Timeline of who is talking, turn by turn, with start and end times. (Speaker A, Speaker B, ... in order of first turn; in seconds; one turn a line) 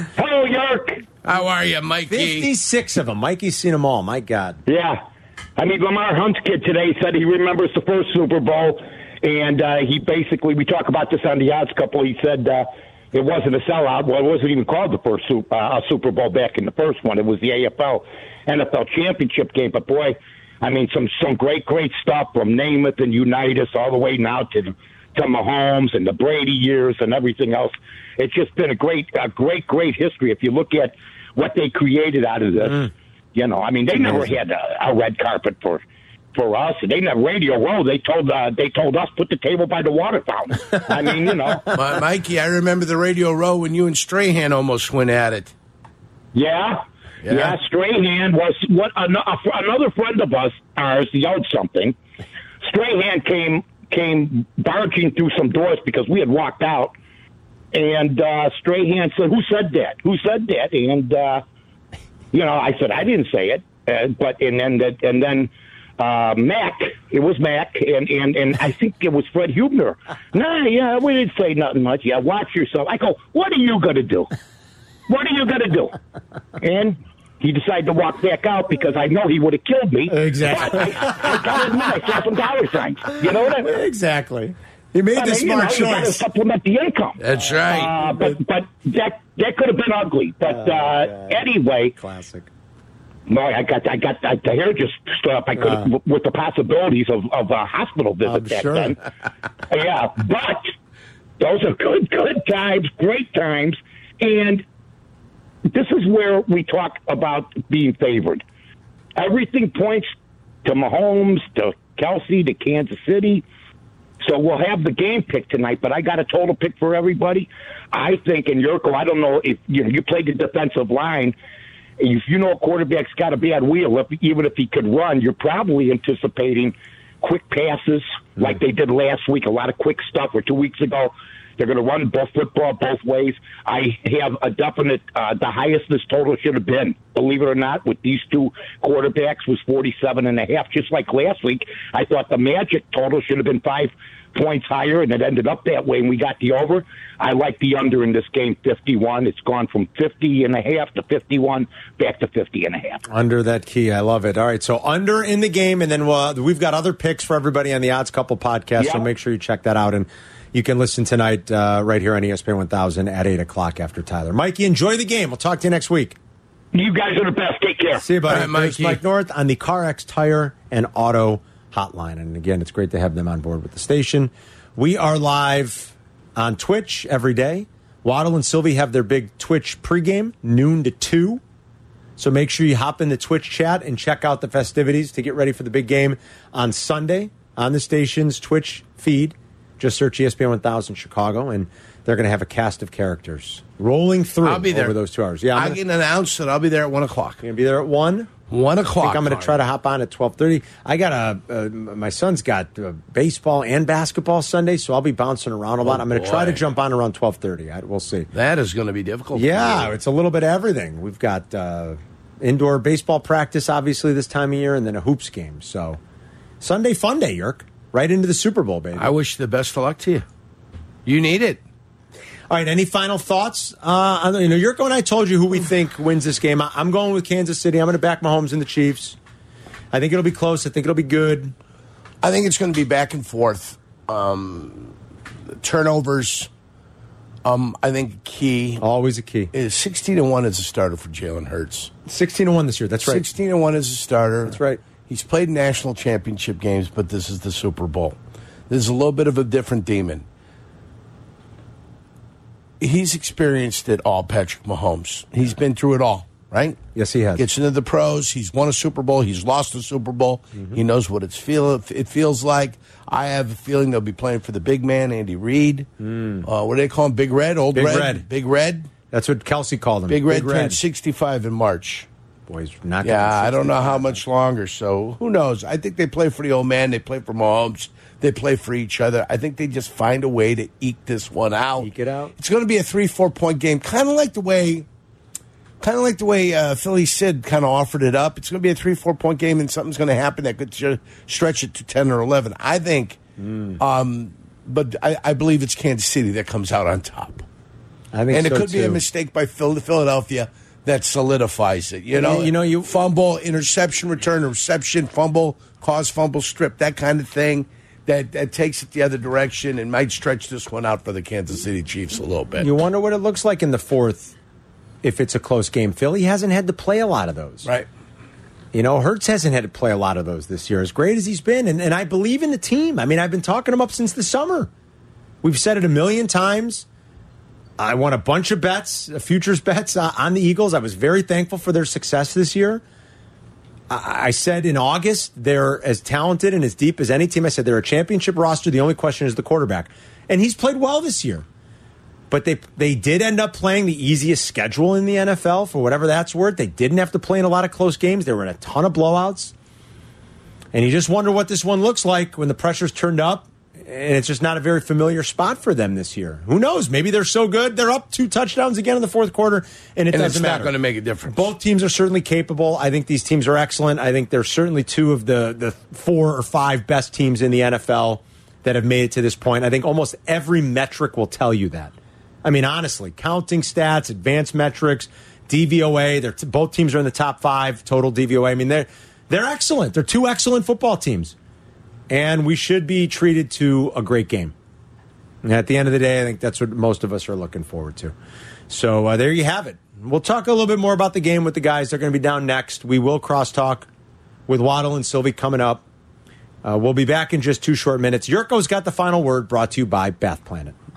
Speaker A: 0.2-1.1
Speaker B: 1.2-2.5
Speaker C: 2.1-4.6
Speaker A: 4.7-5.0
Speaker A: 5.6-35.8
Speaker A: 36.3-41.7
Speaker B: 41.7-45.5
Speaker A: 46.3-52.0
Speaker B: 47.2-47.6
Speaker A: 52.6-56.9
Speaker A: 57.7-61.4
Speaker A: 62.3-74.3
Speaker A: 75.1-76.0
Speaker A: 76.6-83.8
Speaker C: 80.1-81.7
Speaker C: 83.6-86.2
Speaker A: 85.2-91.9
Speaker B: 87.2-88.0
Speaker C: 90.5-91.4
Speaker C: 91.9-92.5
Speaker A: 93.3-99.0
Speaker C: 95.6-95.9
Speaker C: 98.2-99.0
Speaker A: 99.7-100.7
Speaker A: 101.4-104.6
Speaker A: 105.7-108.4
Speaker A: 109.2-110.1
Speaker A: 110.6-113.4
Speaker A: 114.2-121.3
Speaker A: 122.0-153.0
Speaker C: 153.1-166.2
Speaker A: 158.8-159.1
Speaker A: 166.7-168.1
Speaker C: 168.0-181.4
Speaker B: 168.3-169.0
Speaker C: 182.2-195.8
Speaker B: 194.4-195.0
Speaker B: 195.5-197.4
Speaker C: 197.4-198.3
Speaker B: 198.5-199.6
Speaker C: 199.0-208.3
Speaker B: 205.8-206.7
Speaker B: 208.3-210.0
Speaker C: 209.3-216.0
Speaker C: 216.6-219.1
Speaker B: 218.9-220.3
Speaker B: 221.1-221.6
Speaker C: 222.5-229.2
Speaker C: 229.9-231.5
Speaker B: 232.2-234.9
Speaker B: 235.6-236.5
Speaker B: 237.4-238.8
Speaker C: 238.8-239.5
Speaker B: 239.5-241.9
Speaker C: 242.1-243.2
Speaker B: 243.0-248.2
Speaker C: 244.5-244.8
Speaker B: 248.7-250.2
Speaker B: 252.8-256.8
Speaker C: 256.9-257.5
Speaker B: 257.4-265.9
Speaker C: 266.0-266.4
Speaker B: 266.4-268.9
Speaker C: 267.7-268.2
Speaker C: 269.1-270.8
Speaker B: 270.1-272.1
Speaker C: 272.5-274.2
Speaker B: 273.0-284.9
Speaker C: 281.8-282.3
Speaker B: 285.8-293.2
Speaker C: 293.4-293.8
Speaker B: 293.8-297.4
Speaker C: 298.1-299.0
Speaker B: 298.3-312.7
Speaker C: 302.1-302.9
Speaker C: 312.6-314.4
Speaker C: 315.0-317.7
Speaker C: 318.7-324.7
Speaker C: 325.4-326.9
Speaker C: 327.8-332.8
Speaker C: 333.9-341.4
Speaker C: 342.3-349.5
Speaker C: 350.7-360.7
Speaker B: 360.1-361.5
Speaker C: 361.2-371.9
Speaker C: 372.4-381.4
Speaker C: 382.1-384.5
Speaker C: 385.4-388.1
Speaker C: 388.7-393.9
Speaker C: 394.5-395.8
Speaker C: 396.6-400.8